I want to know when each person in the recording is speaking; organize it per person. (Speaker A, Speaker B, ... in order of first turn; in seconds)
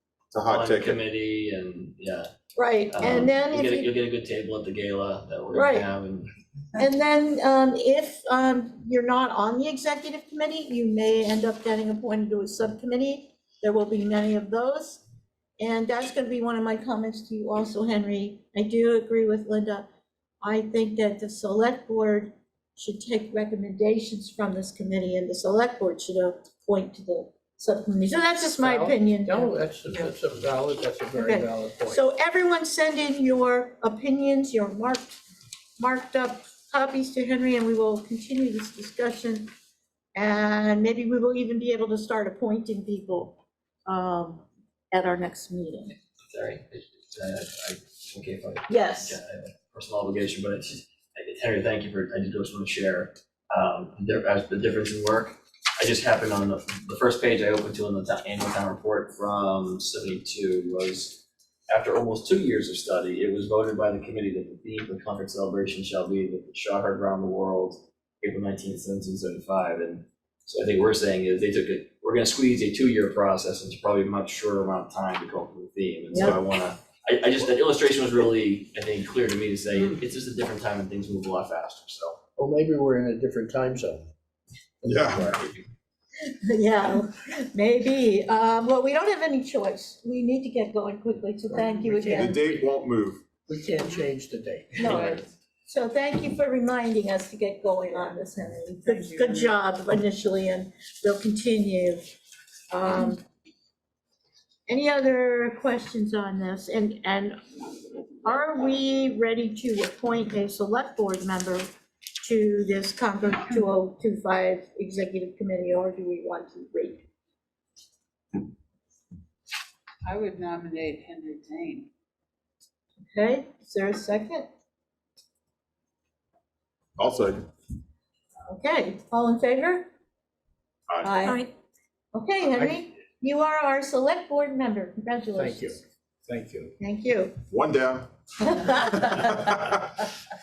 Speaker A: 0.3-1.0, 84.8-85.3, 92.1-93.2, 127.0-127.4, 130.9-131.2, 137.5-138.1, 138.8-139.9
Speaker B: 0.5-2.3, 2.9-6.3, 46.3-82.2, 85.1-85.6
Speaker C: 2.5-3.9, 5.5-5.9, 6.8-15.0, 15.6-19.9, 20.4-29.6, 31.2-35.2, 35.8-39.5, 40.1-46.0, 48.7-49.2, 86.2-92.5, 94.8-95.2, 95.7-102.1, 102.7-103.2, 104.7-107.4, 108.2-111.7, 112.2-117.1, 123.1-124.5, 128.5-129.9, 131.0-131.5, 132.1-135.8, 136.8-137.4, 138.4-139.1
Speaker D: 28.6-32.0, 82.4-84.1, 91.5-92.7, 93.5-95.2, 132.5-132.8, 135.3-136.8
Speaker E: 94.8-95.2, 98.8-99.5, 120.0-121.9